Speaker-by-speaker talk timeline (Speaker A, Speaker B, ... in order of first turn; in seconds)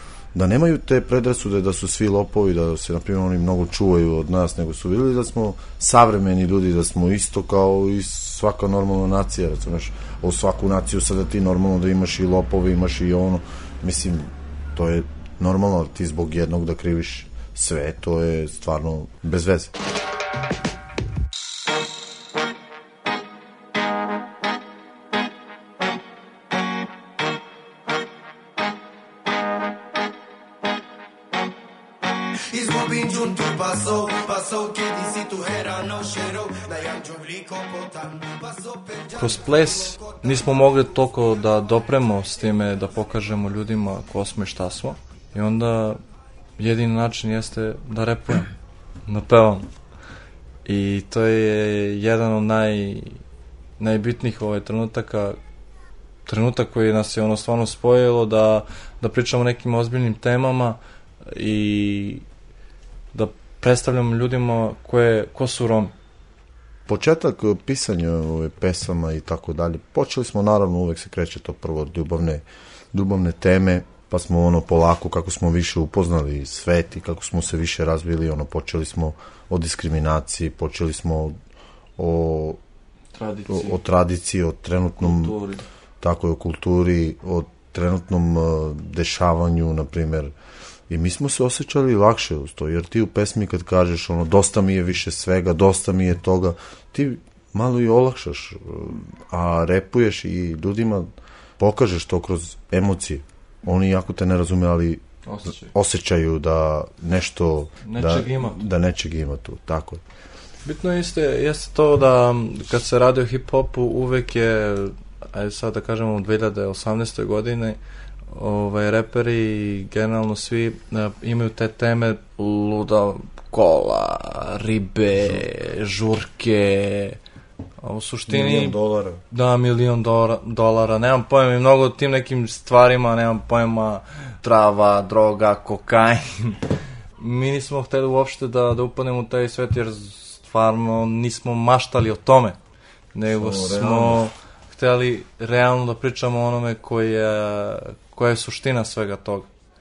Speaker A: 0.3-19.7, 66.8-81.3, 82.0-82.6, 83.5-85.4, 86.0-90.3, 90.9-110.0, 128.3-129.2, 143.3-144.3
Speaker B: 32.5-40.4
Speaker C: 39.1-46.0, 46.6-48.5, 49.0-49.6, 50.6-53.2, 53.8-55.4, 56.2-62.2, 63.1-65.9, 83.1-83.8, 85.0-85.6, 105.2-105.7, 107.8-108.6, 110.6-117.8, 118.3-127.2, 127.8-128.8, 129.3-136.6, 137.2-142.6, 143.1-149.5